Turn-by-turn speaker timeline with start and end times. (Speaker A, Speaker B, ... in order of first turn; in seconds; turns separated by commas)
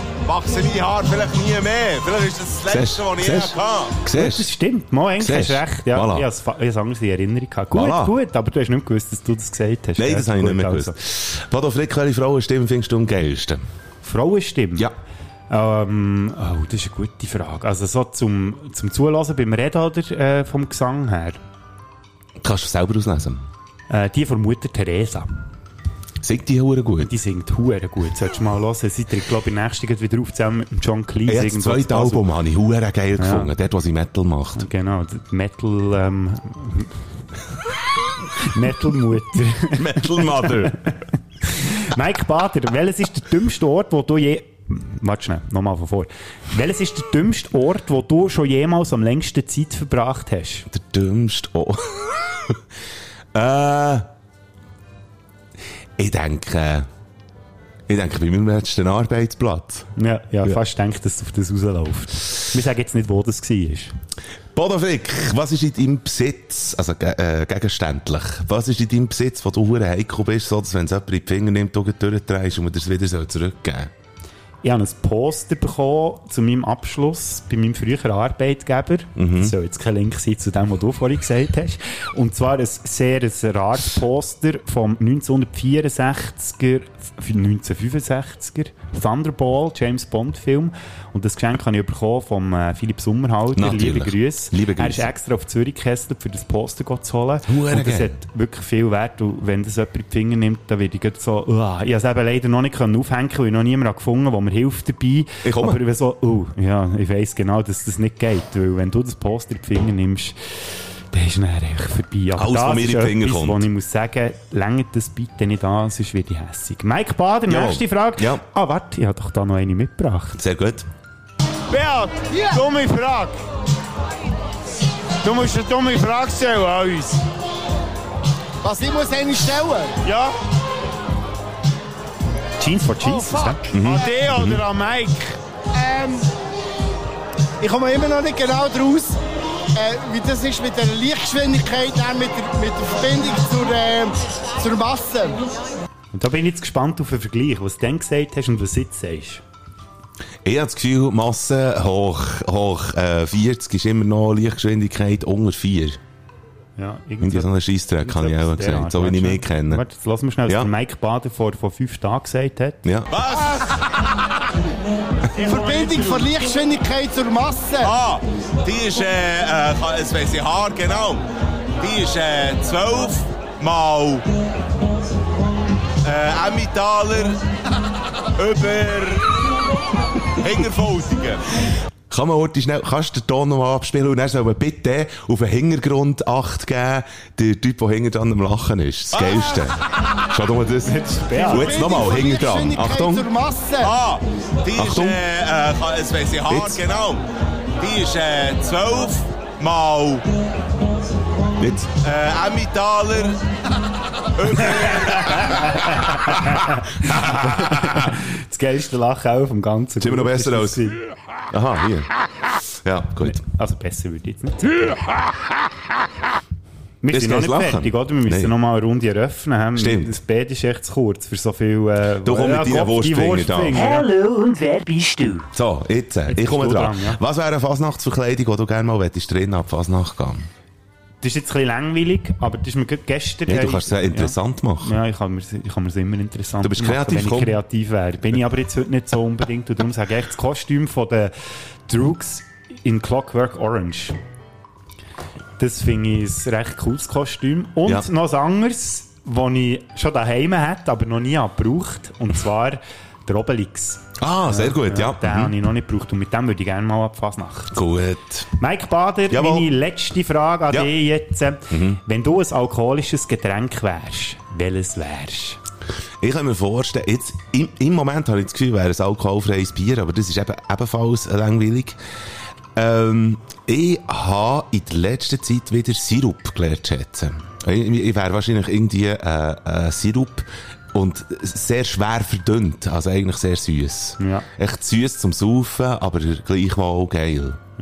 Speaker A: 0.2-4.0, Speaker B: 2.7-4.5, Speaker C: 4.1-10.9, Speaker B: 5.2-6.3, Speaker B: 7.7-8.2, Speaker B: 10.0-13.6, Speaker C: 14.0-14.9, Speaker C: 15.5-21.4, Speaker B: 22.4-23.5, Speaker C: 23.9-25.3, Speaker B: 26.2-27.1, Speaker C: 27.0-32.2, Speaker B: 31.3-34.7, Speaker C: 33.2-33.5, Speaker C: 34.6-36.9, Speaker C: 38.4-40.8, Speaker B: 39.8-40.8, Speaker C: 41.5-50.7, Speaker B: 50.7-52.6, Speaker B: 53.3-54.1, Speaker B: 56.0-56.9, Speaker B: 57.9-59.9, Speaker C: 60.0-63.9, Speaker B: 64.5-73.9, Speaker C: 74.6-110.3, Speaker B: 79.2-79.5, Speaker B: 93.5-95.1, Speaker B: 97.5-98.2, Speaker B: 105.4-105.8, Speaker C: 111.1-120.4, Speaker B: 112.3-113.7, Speaker B: 117.5-118.4, Speaker B: 120.4-120.9, Speaker D: 121.7-123.4, Speaker E: 122.3-122.6, Speaker D: 125.2-127.2, Speaker E: 128.6-130.0, Speaker D: 130.0-130.3, Speaker C: 132.6-133.6, Speaker D: 133.7-135.4, Speaker B: 133.7-134.6, Speaker E: 135.7-136.3, Speaker E: 137.6-139.2, Speaker E: 139.8-145.4, Speaker C: 146.1-149.4, Speaker B: 150.4-156.0, Speaker C: 156.8-162.8, Speaker B: 157.2-159.8, Speaker B: 162.8-163.1, Speaker A: 163.1-163.8, Speaker E: 165.3-167.9, Speaker A: 167.8-174.3, Speaker A: 176.0-177.4, Speaker A: 178.4-179.4, Speaker A: 180.4-181.4, Speaker B: 182.1-193.2, Speaker A: 189.2-189.7, Speaker C: 190.8-191.9, Speaker E: 191.4-193.9, Speaker A: 193.8-200.3, Speaker B: 194.8-195.2, Speaker B: 196.5-196.8, Speaker B: 201.6-201.9, Speaker A: 202.0-203.4, Speaker A: 204.4-205.8, Speaker C: 205.4-211.0, Speaker B: 210.0-210.9, Speaker B: 211.5-212.1, Speaker B: 212.8-213.4, Speaker C: 213.2-215.0, Speaker C: 217.0-225.5, Speaker B: 217.1-218.5, Speaker B: 219.8-220.2, Speaker B: 222.2-224.1, Speaker B: 225.5-230.5, Speaker C: 226.3-227.2, Speaker C: 231.2-241.3, Speaker B: 233.5-234.9, Speaker B: 236.6-237.6, Speaker C: 241.9-244.2, Speaker C: 245.6-257.8, Speaker B: 254.2-255.5, Speaker B: 257.7-258.5, Speaker C: 258.6-265.6, Speaker B: 259.3-259.7, Speaker B: 261.7-262.0, Speaker B: 266.2-272.0, Speaker B: 272.8-287.6, Speaker C: 284.2-284.5